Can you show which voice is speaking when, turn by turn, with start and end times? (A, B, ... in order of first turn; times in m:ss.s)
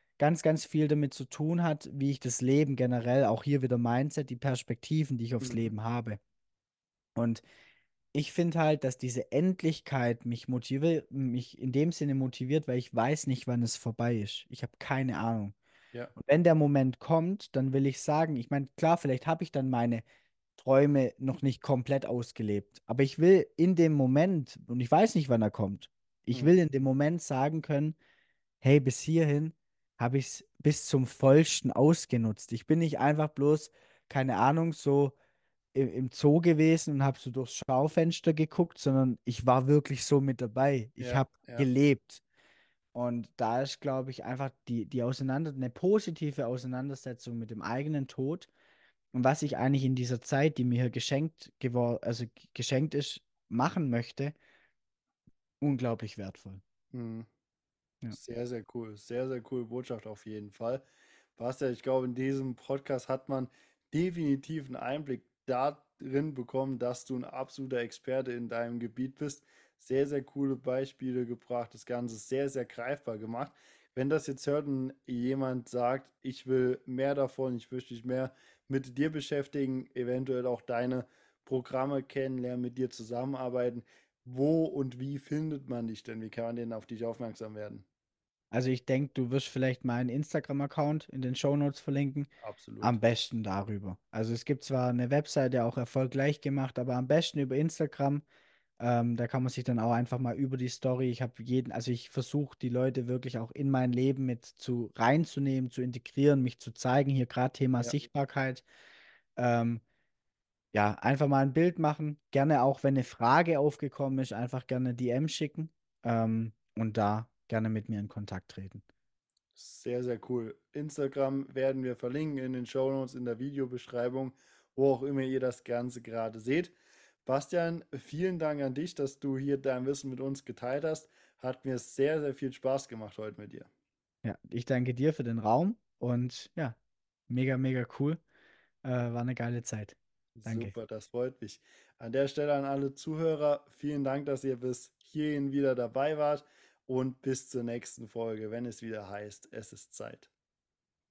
0:00.2-0:06.2 A
0:05.4-0:05.7 B
0:07.2-0:07.4 A
0:08.1-0:15.6 A
0:16.2-0:20.0 A
0:20.6-0:28.0 A
0:28.6-0:35.2 A
0:35.7-0:42.2 A
0:41.0-0:41.7 B
0:42.9-0:48.5 A
0:49.1-0:54.4 A
0:55.6-0:56.6 A
0:56.9-0:57.3 B
0:58.1-1:00.8 B
1:01.4-1:27.8 B
1:28.5-1:32.3 A
1:32.4-1:33.0 B
1:32.8-1:38.2 A
1:38.8-1:48.6 A
1:49.4-1:49.8 A
1:50.7-1:58.8 A
1:59.6-2:06.7 B
2:07.2-2:13.7 B
2:14.2-2:16.8 A
2:17.3-2:18.2 A
2:18.8-2:20.7 A
2:20.4-2:30.3 B